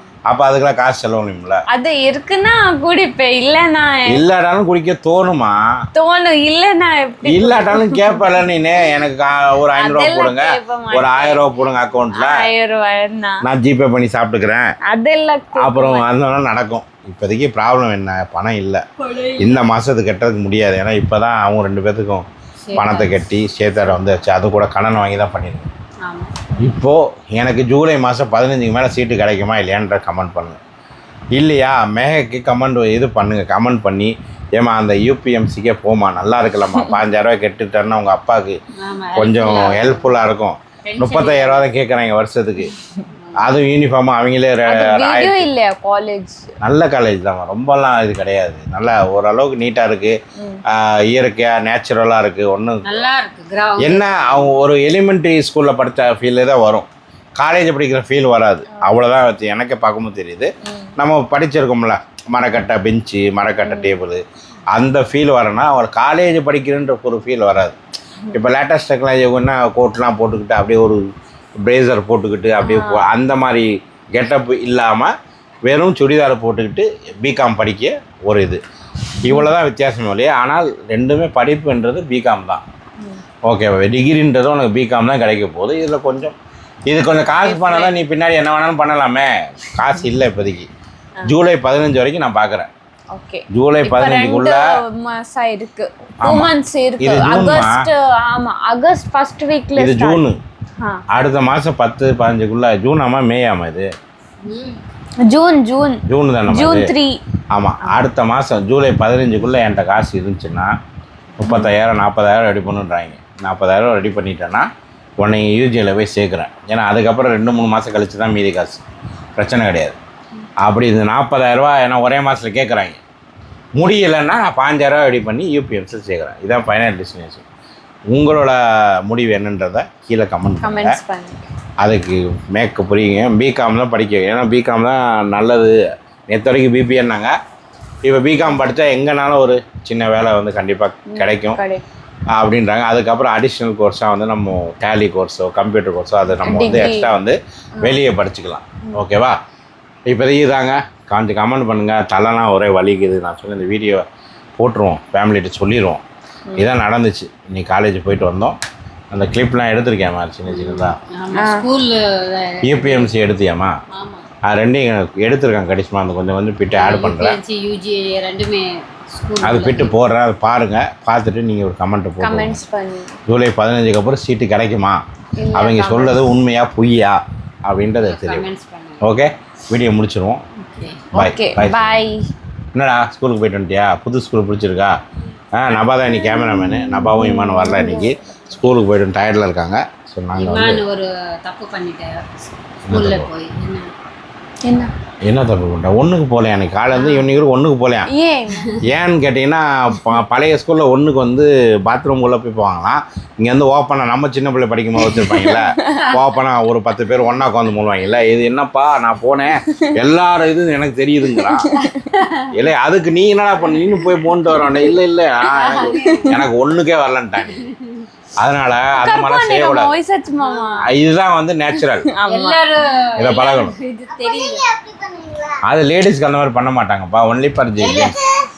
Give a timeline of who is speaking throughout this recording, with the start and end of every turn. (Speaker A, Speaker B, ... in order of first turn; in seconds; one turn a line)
Speaker A: 0.3-1.6
Speaker B: 1.7-4.2
Speaker A: 4.1-5.6
Speaker B: 5.9-8.3
Speaker A: 7.2-12.4
Speaker B: 9.7-11.5
Speaker B: 12.1-13.4
Speaker A: 13.4-14.7
Speaker B: 14.9-16.1
Speaker A: 15.6-25.7
Speaker C: 22.6-23.1
Speaker C: 26.0-26.4
Speaker A: 26.6-30.6
Speaker A: 31.4-38.5
Speaker C: 38.8-40.1
Speaker A: 39.1-42.7
Speaker C: 40.9-41.7
Speaker C: 43.2-43.5
Speaker A: 43.4-45.5
Speaker B: 44.7-46.4
Speaker A: 46.6-50.2
Speaker B: 50.4-50.6
Speaker A: 50.7-53.0
Speaker C: 52.8-54.6
Speaker A: 53.8-67.8
Speaker B: 58.7-59.0
Speaker B: 63.6-64.0
Speaker A: 68.3-71.0
Speaker A: 71.6-75.1
Speaker B: 72.6-73.0
Speaker A: 75.7-78.6
Speaker B: 79.2-79.5
Speaker A: 79.2-82.6
Speaker A: 83.5-86.3
Speaker A: 86.9-90.7
Speaker C: 87.4-88.0
Speaker A: 91.3-92.7
Speaker B: 93.1-100.2
Speaker A: 93.5-94.6
Speaker A: 96.2-97.9
Speaker A: 99.8-100.4
Speaker A: 101.1-103.9
Speaker C: 104.4-104.8
Speaker B: 105.2-107.2
Speaker A: 106.1-106.9
Speaker A: 107.5-110.7
Speaker A: 111.4-114.7
Speaker B: 111.4-111.7
Speaker A: 115.2-118.8
Speaker A: 119.4-120.0
Speaker A: 120.6-123.0
Speaker A: 123.8-127.4
Speaker A: 128.1-131.0
Speaker B: 130.6-131.5
Speaker A: 131.8-135.8
Speaker A: 136.3-137.3
Speaker A: 138.0-141.6
Speaker B: 141.1-141.8
Speaker A: 142.3-149.4
Speaker B: 146.4-147.1
Speaker B: 147.8-148.1
Speaker A: 150.1-154.0
Speaker A: 154.6-156.0
Speaker A: 156.6-158.6
Speaker A: 159.1-161.0
Speaker C: 160.5-163.1
Speaker B: 161.3-161.7
Speaker A: 162.7-163.7
Speaker C: 163.9-164.3
Speaker A: 164.5-167.4
Speaker C: 166.8-169.9
Speaker A: 169.4-172.6
Speaker B: 172.2-173.1
Speaker A: 173.3-175.0
Speaker B: 175.4-176.3
Speaker A: 175.5-178.5
Speaker C: 178.0-179.0
Speaker A: 179.0-180.4
Speaker C: 180.6-181.1
Speaker B: 181.1-182.2
Speaker A: 181.1-182.1
Speaker A: 182.7-184.9
Speaker A: 185.5-190.8
Speaker B: 186.2-188.5
Speaker C: 190.3-192.2
Speaker A: 192.9-193.3
Speaker C: 192.9-193.9
Speaker B: 194.6-194.9
Speaker A: 195.2-198.1
Speaker C: 196.9-197.3
Speaker B: 198.1-198.7
Speaker A: 198.8-211.7
Speaker B: 205.0-206.0
Speaker B: 211.4-212.0
Speaker C: 211.8-212.4
Speaker A: 212.5-217.6
Speaker C: 215.5-216.4
Speaker B: 215.9-216.4
Speaker C: 217.5-218.0
Speaker A: 218.4-219.9
Speaker B: 219.0-220.9
Speaker C: 220.4-220.9
Speaker A: 220.8-222.1
Speaker B: 222.0-222.6
Speaker C: 222.3-225.5
Speaker A: 223.2-223.8
Speaker B: 224.2-224.6
Speaker A: 225.6-228.2
Speaker C: 227.8-228.4